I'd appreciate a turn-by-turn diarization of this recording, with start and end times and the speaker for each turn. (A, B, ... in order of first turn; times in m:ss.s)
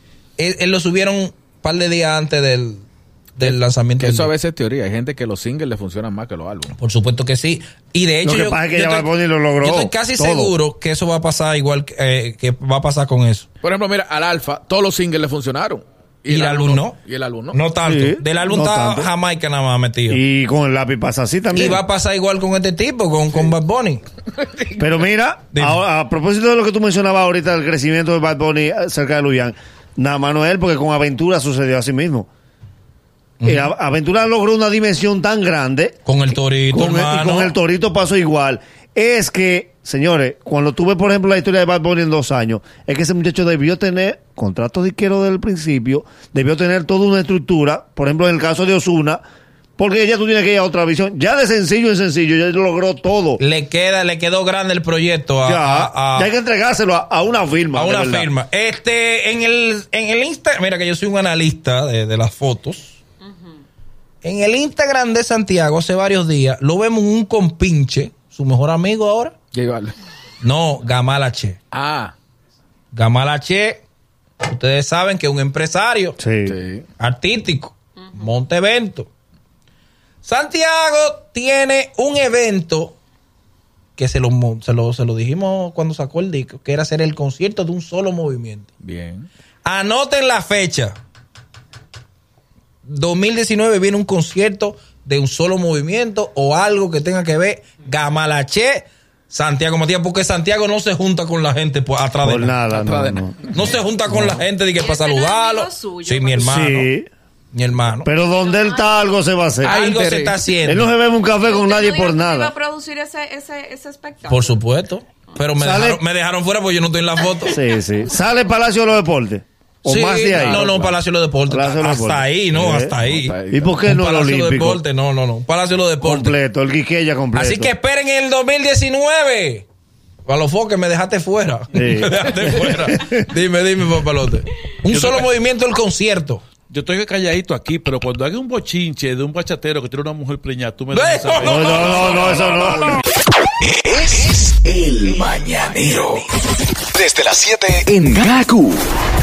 0:00.4-0:04.3 A
0:03.4-0:06.7 B
0:06.8-0:09.1 A
0:08.2-0:10.5 C
0:09.6-0:13.5 A
0:13.6-0:17.6 B
0:16.3-0:17.0 A
0:17.5-0:20.2 A
0:17.8-0:19.1 C
0:20.1-0:21.8 C
0:21.5-0:24.0 A
0:24.3-0:24.9 B
0:24.8-0:32.3 C
0:25.5-0:25.8 A
0:33.4-0:33.7 A
0:33.4-0:36.0 C
0:36.0-0:37.5 A
0:36.7-0:49.2 C
0:49.8-0:53.4 C
0:53.4-0:56.3 A
0:55.4-0:58.3 C
0:57.7-1:03.0 A
1:04.2-1:09.3 A
1:09.5-1:09.9 B
1:10.4-1:11.6 A
1:11.7-1:12.1 B
1:12.9-1:13.8 A
1:14.4-1:16.2 A
1:16.2-1:16.5 C
1:16.4-1:16.8 B
1:17.0-1:19.1 A
1:20.2-1:23.0 A
1:24.0-1:28.7 A
1:28.8-1:29.3 B
1:29.6-1:30.9 A
1:32.8-1:42.6 A
1:42.2-1:43.5 C
1:42.7-1:43.4 B
1:43.4-1:46.9 A
1:44.1-1:44.4 C
1:44.8-1:46.6 D
1:46.4-1:47.1 C
1:47.5-1:48.1 A
1:48.0-1:49.8 C
1:49.6-1:50.4 B
1:49.7-1:50.9 A
1:50.6-1:52.6 C
1:51.4-1:54.6 D
1:54.3-1:57.6 A
1:55.6-1:56.0 C
1:57.5-2:00.9 C
1:59.8-2:06.4 A
2:00.3-2:00.9 B
2:01.5-2:04.8 C
2:03.0-2:03.7 B
2:06.0-2:07.7 C
2:07.3-2:09.6 A
2:10.2-2:16.4 A
2:11.7-2:13.1 C
2:14.9-2:15.2 E
2:16.7-2:22.2 E
2:20.9-2:22.8 A
2:21.4-2:22.9 C
2:23.8-2:26.2 F
2:26.9-2:28.8 F